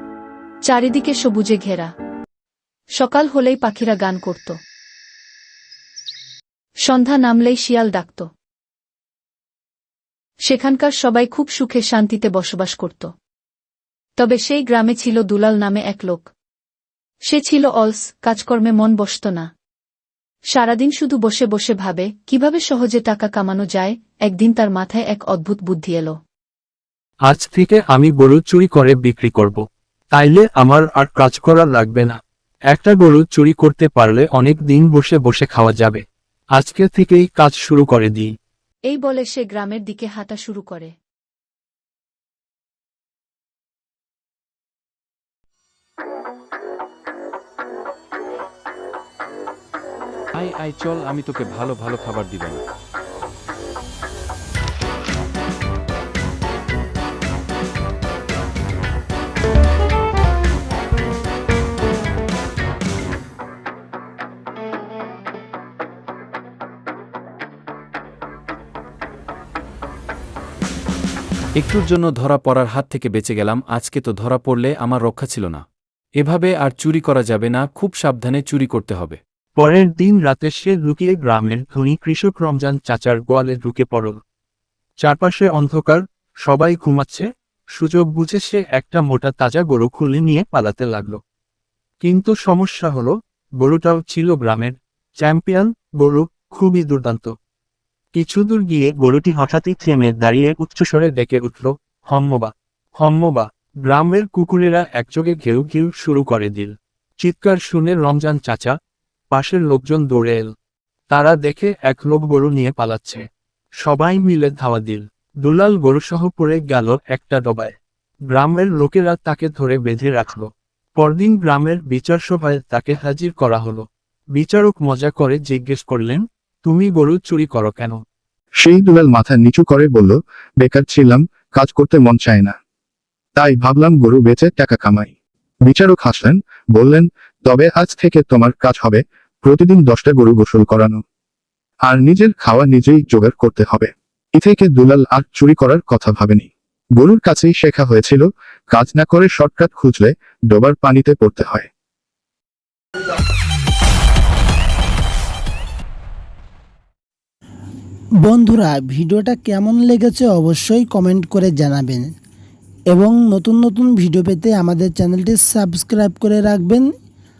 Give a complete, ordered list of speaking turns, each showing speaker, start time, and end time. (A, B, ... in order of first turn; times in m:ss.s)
0:00.6-0:01.9 A
0:03.0-0:04.6 A
0:06.8-0:08.3 A
0:10.4-0:13.1 A
0:14.2-0:16.3 A
0:17.3-0:19.5 A
0:20.5-0:26.1 A
0:27.3-0:29.6 B
0:30.1-0:32.2 B
0:32.7-0:36.0 B
0:36.5-0:38.3 B
0:38.9-0:40.9 A
0:50.3-0:52.6 C
1:11.6-1:15.6 C
1:16.2-1:19.2 C
1:19.6-1:24.2 B
1:25.0-1:27.2 B
1:27.8-1:31.2 B
1:32.0-1:37.3 B
1:38.1-1:48.7 B
1:49.3-1:50.5 B
1:51.1-1:53.2 B
1:53.8-1:57.7 B
1:58.3-2:03.8 B
2:04.4-2:08.0 B
2:08.6-2:12.5 D
2:13.4-2:15.1 D
2:15.6-2:21.0 D
2:21.8-2:31.7 D
2:38.2-2:42.1 E
2:42.9-2:46.9 E